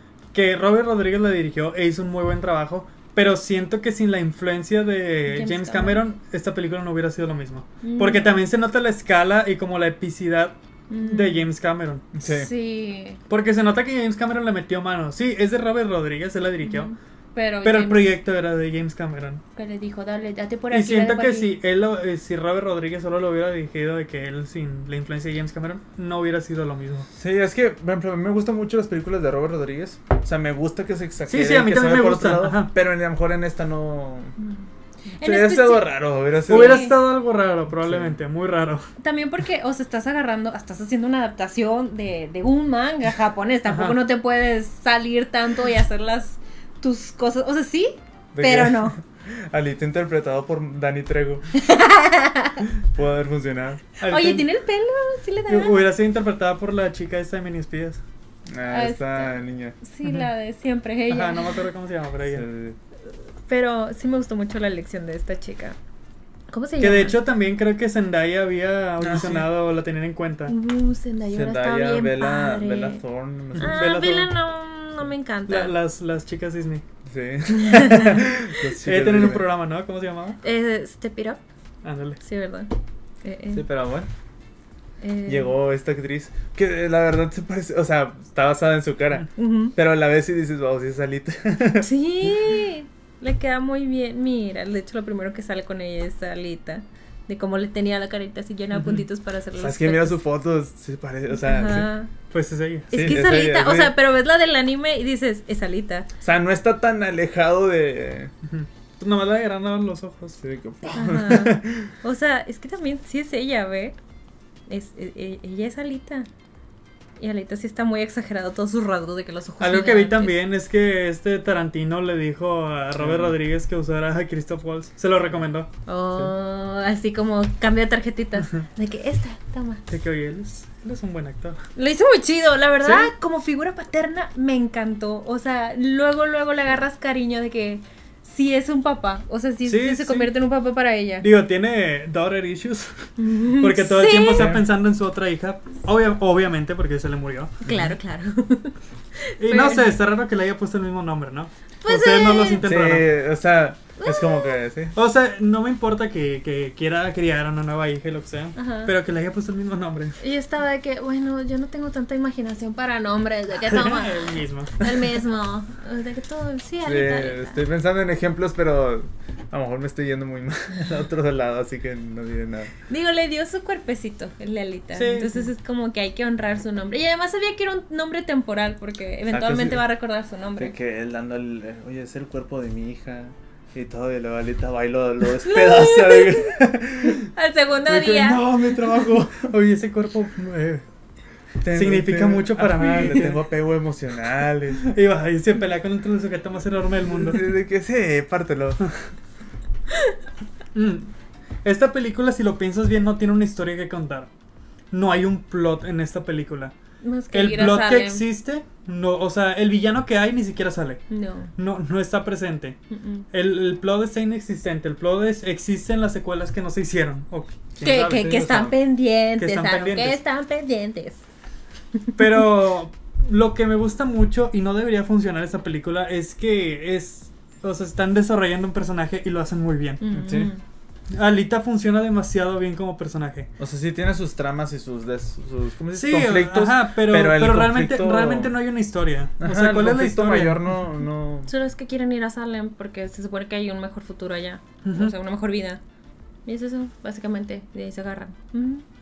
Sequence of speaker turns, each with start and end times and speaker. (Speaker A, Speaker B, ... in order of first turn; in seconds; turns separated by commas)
Speaker A: 0.3-12.0, Speaker B: 5.3-6.0, Speaker B: 7.8-8.4, Speaker B: 10.9-11.5, Speaker C: 12.1-12.5, Speaker B: 12.2-13.2, Speaker A: 13.3-16.9, Speaker B: 16.6-18.1, Speaker A: 17.6-19.4, Speaker B: 19.6-21.5, Speaker A: 20.7-27.1, Speaker C: 27.1-34.4, Speaker A: 31.3-32.7, Speaker B: 34.4-34.6, Speaker B: 35.2-35.9, Speaker C: 35.2-36.9, Speaker B: 36.4-37.0, Speaker A: 36.5-38.9, Speaker C: 37.8-38.1, Speaker B: 39.0-49.0, Speaker A: 43.7-44.0, Speaker C: 48.3-51.5, Speaker B: 51.5-52.6, Speaker C: 52.9-53.8, Speaker A: 54.0-54.5, Speaker B: 54.0-55.8, Speaker A: 55.5-58.0, Speaker C: 58.5-59.8, Speaker B: 58.7-61.5, Speaker A: 61.1-62.4, Speaker C: 62.2-62.8, Speaker B: 63.5-65.8, Speaker B: 66.5-67.2, Speaker A: 66.8-70.5, Speaker C: 69.0-69.5, Speaker B: 70.5-73.0, Speaker C: 71.3-73.8, Speaker B: 73.6-75.7, Speaker A: 73.6-74.3, Speaker A: 75.5-76.8, Speaker C: 77.0-79.5, Speaker B: 77.5-78.2, Speaker A: 78.8-80.4, Speaker B: 80.4-81.4, Speaker A: 81.8-82.2, Speaker B: 82.2-82.7, Speaker B: 83.2-83.6, Speaker C: 83.5-84.1, Speaker B: 85.0-85.5, Speaker C: 85.2-91.9, Speaker B: 89.4-89.7, Speaker B: 91.8-100.2, Speaker A: 98.7-99.0, Speaker C: 99.6-101.9, Speaker B: 101.3-102.1, Speaker A: 102.3-103.1, Speaker C: 102.9-103.9, Speaker B: 102.9-106.1, Speaker C: 106.2-108.3, Speaker A: 108.5-110.4, Speaker C: 110.4-111.9, Speaker B: 110.9-114.0, Speaker B: 114.7-116.3, Speaker B: 117.2-120.4, Speaker A: 119.6-125.7, Speaker C: 123.0-123.3, Speaker B: 125.8-129.8, Speaker A: 129.9-131.6, Speaker B: 131.8-141.3, Speaker A: 132.8-133.1, Speaker A: 139.7-140.3, Speaker A: 141.2-147.7, Speaker B: 143.2-144.5, Speaker C: 144.3-144.6, Speaker B: 147.6-149.9, Speaker C: 147.7-147.9, Speaker A: 149.4-153.1, Speaker B: 151.8-152.7, Speaker C: 152.6-154.9, Speaker B: 154.0-154.6, Speaker A: 154.9-160.2, Speaker B: 158.6-158.9, Speaker B: 160.2-167.6, Speaker A: 163.6-165.1, Speaker C: 166.8-172.7, Speaker B: 172.9-180.7, Speaker A: 174.9-175.5, Speaker C: 179.3-179.8, Speaker C: 180.6-187.3, Speaker B: 185.4-188.5, Speaker C: 187.8-189.5, Speaker A: 189.4-190.8, Speaker C: 191.6-194.9, Speaker A: 191.7-193.4, Speaker A: 194.8-197.5, Speaker C: 197.2-198.9, Speaker A: 200.7-201.1, Speaker A: 201.6-204.3, Speaker A: 204.9-206.7, Speaker B: 207.0-208.2, Speaker A: 207.3-211.0, Speaker B: 211.1-211.5, Speaker A: 211.6-212.8, Speaker B: 212.9-213.2, Speaker A: 213.3-218.3, Speaker C: 217.8-218.8, Speaker B: 217.8-221.2, Speaker A: 219.4-220.2, Speaker A: 222.2-230.0, Speaker B: 230.0-230.6, Speaker C: 230.1-230.5, Speaker A: 231.1-233.5, Speaker C: 233.6-238.5, Speaker A: 235.9-240.6, Speaker C: 239.4-241.5, Speaker B: 241.5-245.8, Speaker A: 244.8-245.1, Speaker B: 246.4-248.8